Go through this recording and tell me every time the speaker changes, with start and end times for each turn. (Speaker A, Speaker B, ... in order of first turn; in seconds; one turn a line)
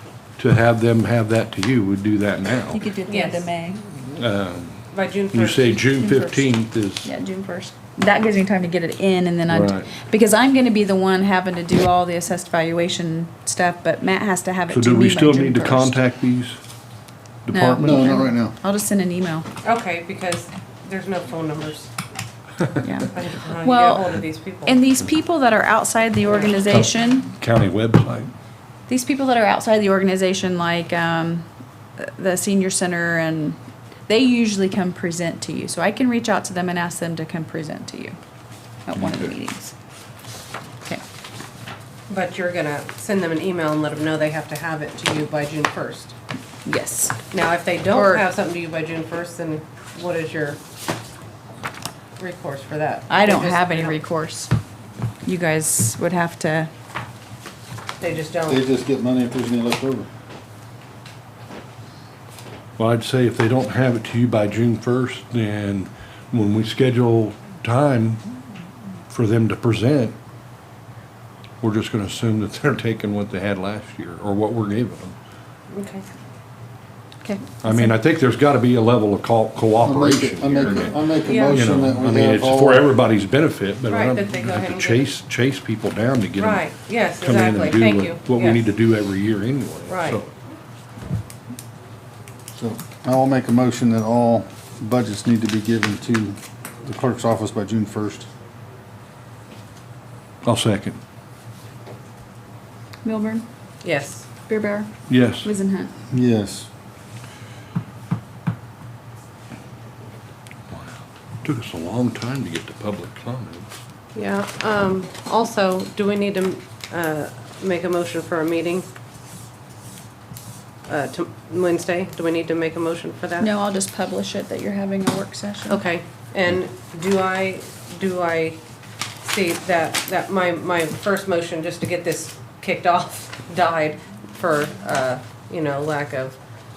Speaker A: 0.4-2.8
Speaker B: 2.7-3.8
Speaker C: 3.1-3.5
Speaker A: 4.1-7.1
Speaker C: 4.9-5.9
Speaker B: 6.0-6.5
Speaker B: 7.0-16.0
Speaker A: 9.5-9.9
Speaker A: 14.7-16.6
Speaker A: 17.5-18.1
Speaker B: 17.5-19.5
Speaker D: 17.8-18.6
Speaker C: 19.6-21.9
Speaker B: 22.8-24.1
Speaker C: 23.1-24.8
Speaker B: 24.7-27.3
Speaker A: 26.6-28.3
Speaker B: 28.9-31.5
Speaker B: 32.0-38.2
Speaker B: 38.9-39.7
Speaker C: 42.1-46.1
Speaker B: 46.6-47.2
Speaker C: 47.3-50.6
Speaker B: 47.9-48.2
Speaker C: 52.2-54.0
Speaker B: 53.1-54.5
Speaker B: 55.2-56.7
Speaker C: 58.0-58.6
Speaker D: 58.5-60.1
Speaker A: 62.8-68.2
Speaker A: 69.1-70.2
Speaker A: 71.6-75.2
Speaker C: 75.7-76.0
Speaker B: 77.2-77.9
Speaker A: 77.6-86.7
Speaker D: 79.8-82.9
Speaker C: 81.2-81.6
Speaker C: 83.9-85.1
Speaker C: 86.4-88.7
Speaker A: 87.2-90.3
Speaker C: 89.9-90.2
Speaker D: 92.6-98.3
Speaker A: 100.4-101.0
Speaker B: 103.0-103.4
Speaker C: 103.8-104.3
Speaker B: 104.5-104.9
Speaker A: 105.1-105.5
Speaker B: 105.4-105.9
Speaker D: 106.1-106.7
Speaker A: 110.7-113.7
Speaker C: 114.2-118.9
Speaker C: 120.9-123.5
Speaker B: 123.4-125.8
Speaker C: 125.7-128.6
Speaker C: 129.2-136.3